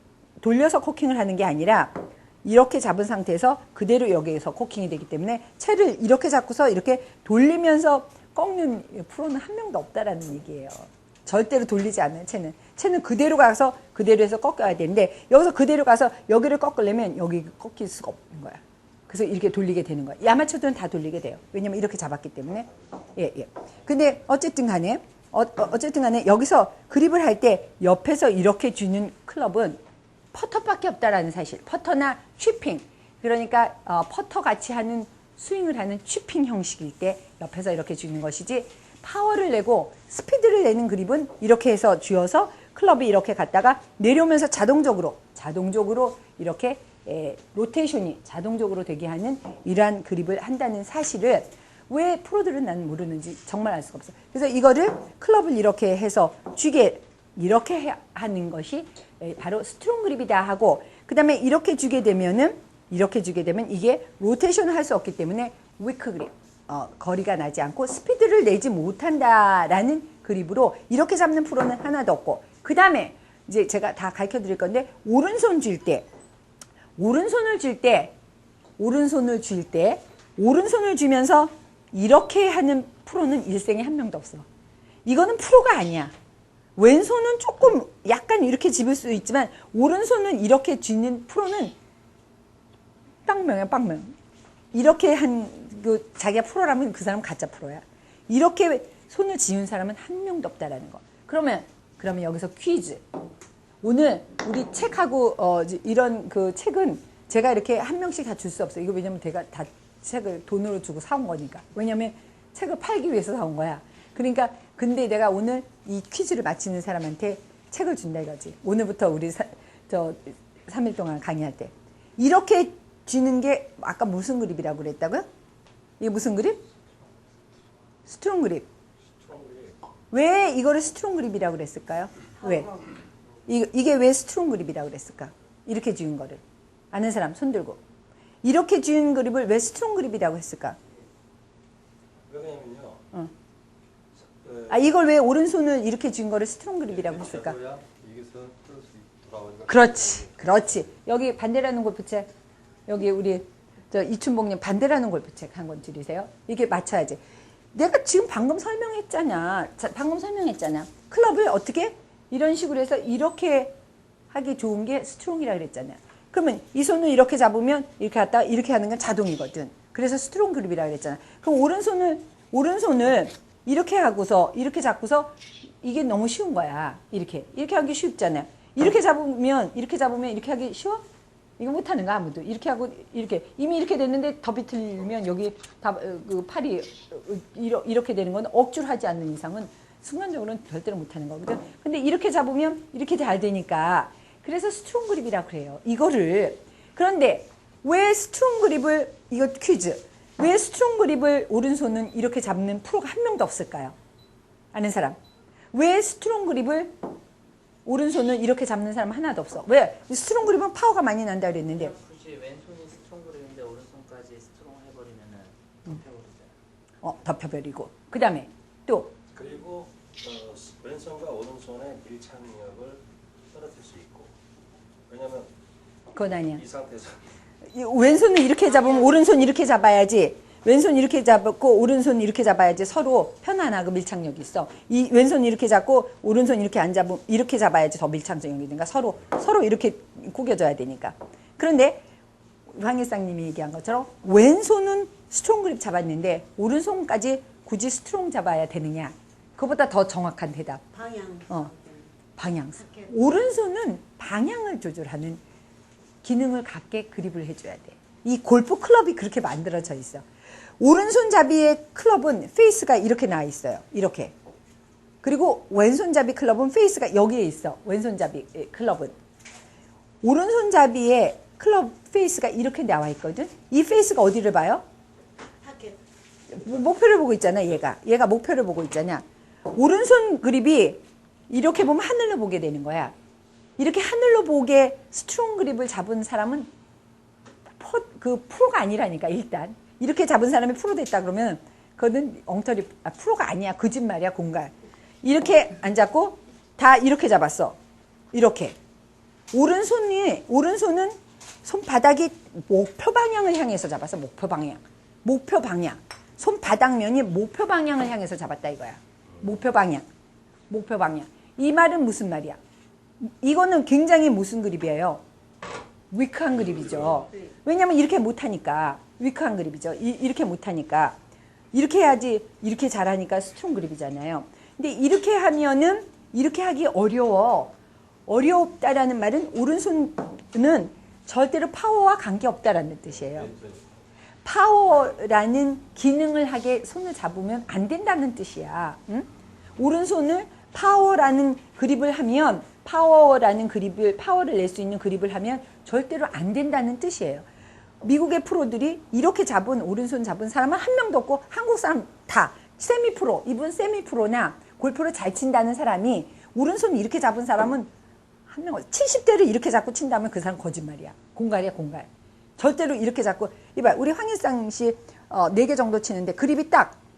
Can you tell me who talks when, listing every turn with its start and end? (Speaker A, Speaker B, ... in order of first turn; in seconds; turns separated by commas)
Speaker A: 0.4-29.8, Speaker A: 30.3-76.1, Speaker A: 77.0-78.2, Speaker A: 78.8-84.5, Speaker A: 85.0-86.1, Speaker A: 86.8-91.8, Speaker A: 93.2-94.2, Speaker A: 94.7-103.0, Speaker A: 103.8-125.2, Speaker A: 126.0-126.6, Speaker A: 128.1-128.7, Speaker B: 129.2-129.8, Speaker A: 130.1-132.9, Speaker A: 133.5-137.8, Speaker A: 138.4-140.8, Speaker B: 142.3-143.0, Speaker B: 144.4-144.8, Speaker A: 144.7-147.6, Speaker B: 147.1-148.0, Speaker C: 148.0-149.7, Speaker A: 149.7-152.3, Speaker A: 152.9-157.2, Speaker A: 157.7-163.7, Speaker A: 164.3-181.0, Speaker A: 181.6-203.9, Speaker A: 204.7-205.2, Speaker A: 205.7-207.0, Speaker A: 207.9-212.0, Speaker D: 211.9-216.5, Speaker A: 217.0-219.2, Speaker B: 219.3-224.3, Speaker B: 225.1-225.5, Speaker A: 226.1-226.6, Speaker B: 226.6-227.2, Speaker A: 227.7-242.1, Speaker A: 242.7-255.4, Speaker C: 251.2-252.0, Speaker A: 256.2-260.2, Speaker A: 260.8-264.3, Speaker A: 265.2-269.1, Speaker A: 270.2-274.8, Speaker C: 275.6-276.0, Speaker A: 276.5-283.1, Speaker A: 283.8-286.7, Speaker A: 287.7-297.8, Speaker A: 298.3-298.8, Speaker A: 299.5-310.1, Speaker A: 310.7-312.6, Speaker A: 313.2-315.2, Speaker A: 316.1-321.2, Speaker A: 321.7-327.7, Speaker A: 328.3-333.6, Speaker A: 334.4-347.5, Speaker A: 348.0-357.9, Speaker A: 358.5-367.0